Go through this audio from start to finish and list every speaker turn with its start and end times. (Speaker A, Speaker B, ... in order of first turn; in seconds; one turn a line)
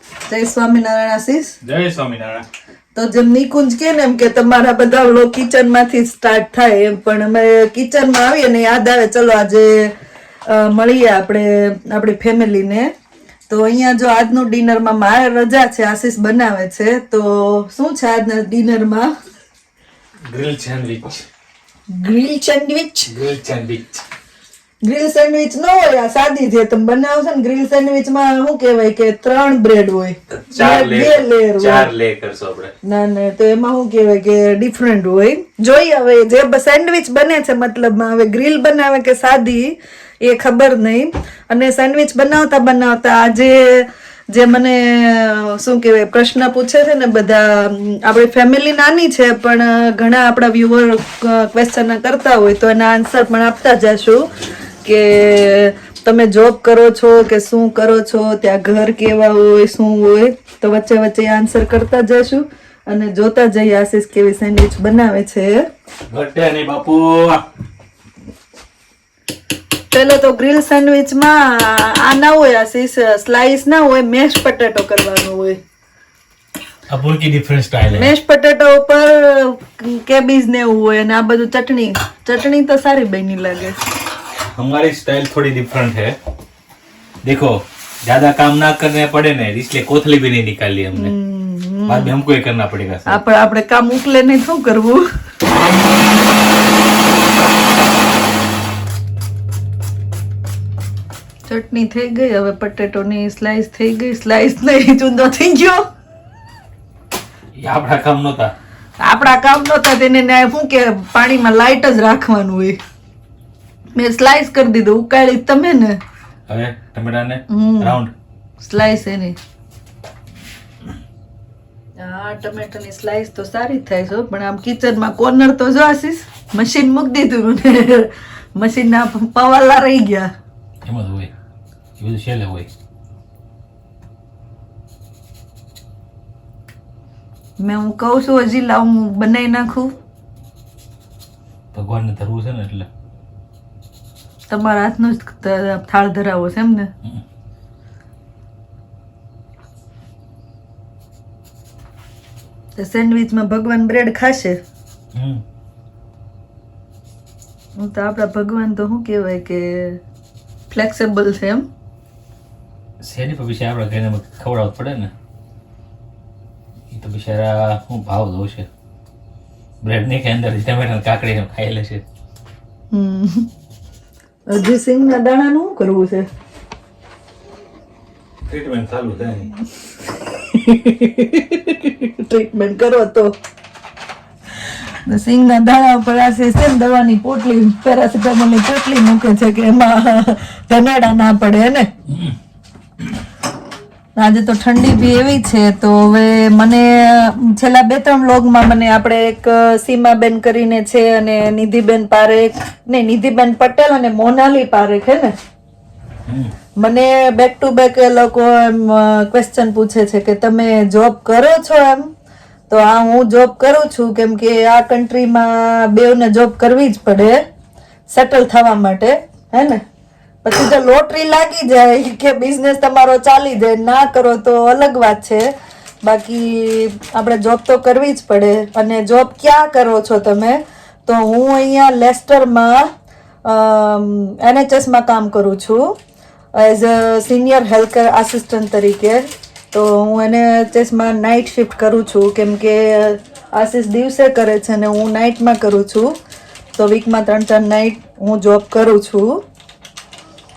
Speaker A: 0.3-1.6
Speaker B: 1.6-2.4
Speaker A: 2.9-9.9
Speaker A: 10.5-12.9
Speaker A: 13.5-19.1
Speaker B: 20.3-21.2
Speaker A: 21.9-23.1
Speaker B: 23.1-24.0
Speaker A: 24.8-31.9
Speaker B: 30.3-32.7
Speaker A: 32.9-54.2
Speaker A: 54.9-65.5
Speaker B: 66.1-67.4
Speaker A: 69.9-75.6
Speaker B: 76.9-78.1
Speaker A: 78.0-83.8
Speaker B: 84.5-86.2
Speaker B: 87.2-91.1
Speaker A: 90.9-92.1
Speaker B: 91.9-93.2
Speaker A: 93.1-95.0
Speaker A: 101.5-105.8
Speaker B: 107.6-108.5
Speaker A: 109.0-112.8
Speaker A: 114.0-116.0
Speaker B: 116.5-118.1
Speaker A: 117.5-118.0
Speaker A: 118.6-119.4
Speaker A: 122.0-130.3
Speaker B: 130.8-131.3
Speaker B: 132.0-132.7
Speaker A: 137.6-139.9
Speaker B: 141.7-142.9
Speaker A: 144.5-146.9
Speaker A: 152.8-154.6
Speaker B: 155.1-155.4
Speaker A: 157.8-160.0
Speaker A: 160.7-161.7
Speaker B: 163.0-165.1
Speaker B: 166.9-168.7
Speaker B: 169.8-172.0
Speaker A: 172.9-173.5
Speaker A: 174.5-176.2
Speaker B: 178.5-179.5
Speaker A: 180.5-183.3
Speaker A: 185.1-191.9
Speaker B: 192.1-192.3
Speaker A: 194.2-205.3
Speaker B: 206.3-206.5
Speaker A: 206.8-212.1
Speaker A: 212.7-217.4
Speaker A: 218.1-219.8
Speaker A: 220.4-225.5
Speaker A: 226.0-232.9
Speaker A: 233.4-235.8
Speaker A: 236.5-246.1
Speaker A: 246.8-249.4